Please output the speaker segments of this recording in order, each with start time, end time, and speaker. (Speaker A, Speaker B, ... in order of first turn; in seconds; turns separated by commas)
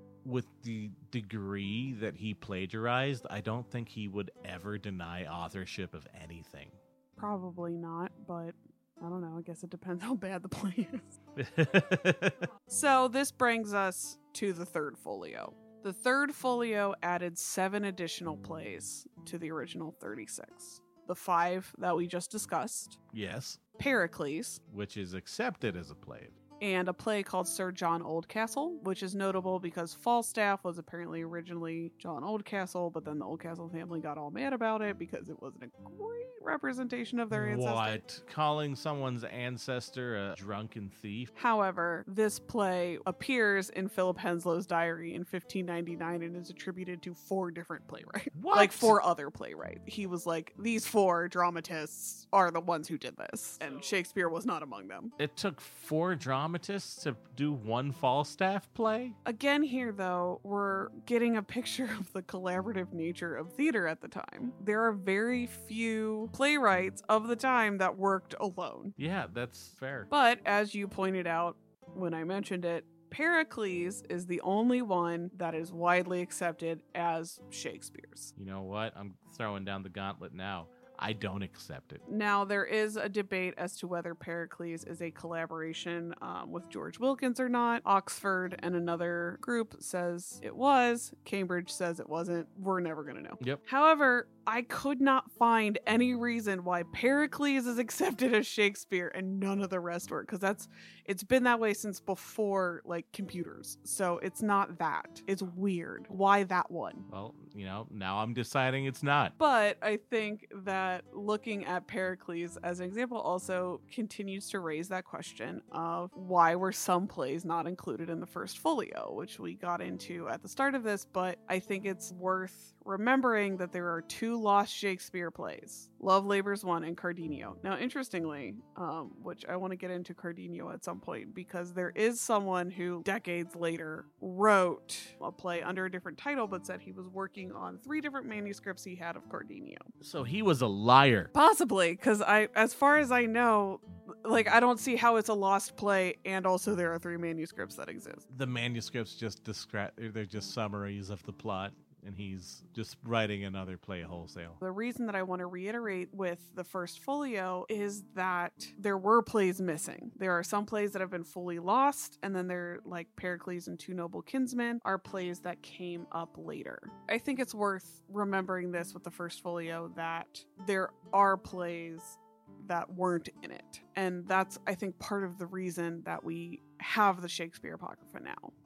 Speaker A: 0.2-6.8, Speaker B: 7.2-11.1, Speaker A: 11.4-12.5, Speaker B: 12.7-23.0, Speaker A: 23.1-23.6, Speaker B: 23.8-24.6, Speaker A: 24.7-26.3, Speaker B: 26.6-38.0, Speaker A: 37.3-41.3, Speaker B: 41.4-55.1, Speaker A: 48.3-49.0, Speaker A: 55.2-59.1, Speaker B: 59.2-68.9, Speaker A: 69.0-70.1, Speaker B: 70.1-78.3, Speaker A: 78.3-82.0, Speaker B: 82.1-107.1, Speaker A: 107.1-109.3, Speaker B: 109.4-139.9, Speaker A: 140.0-141.3, Speaker B: 141.3-148.2, Speaker A: 148.3-154.6, Speaker B: 154.6-178.5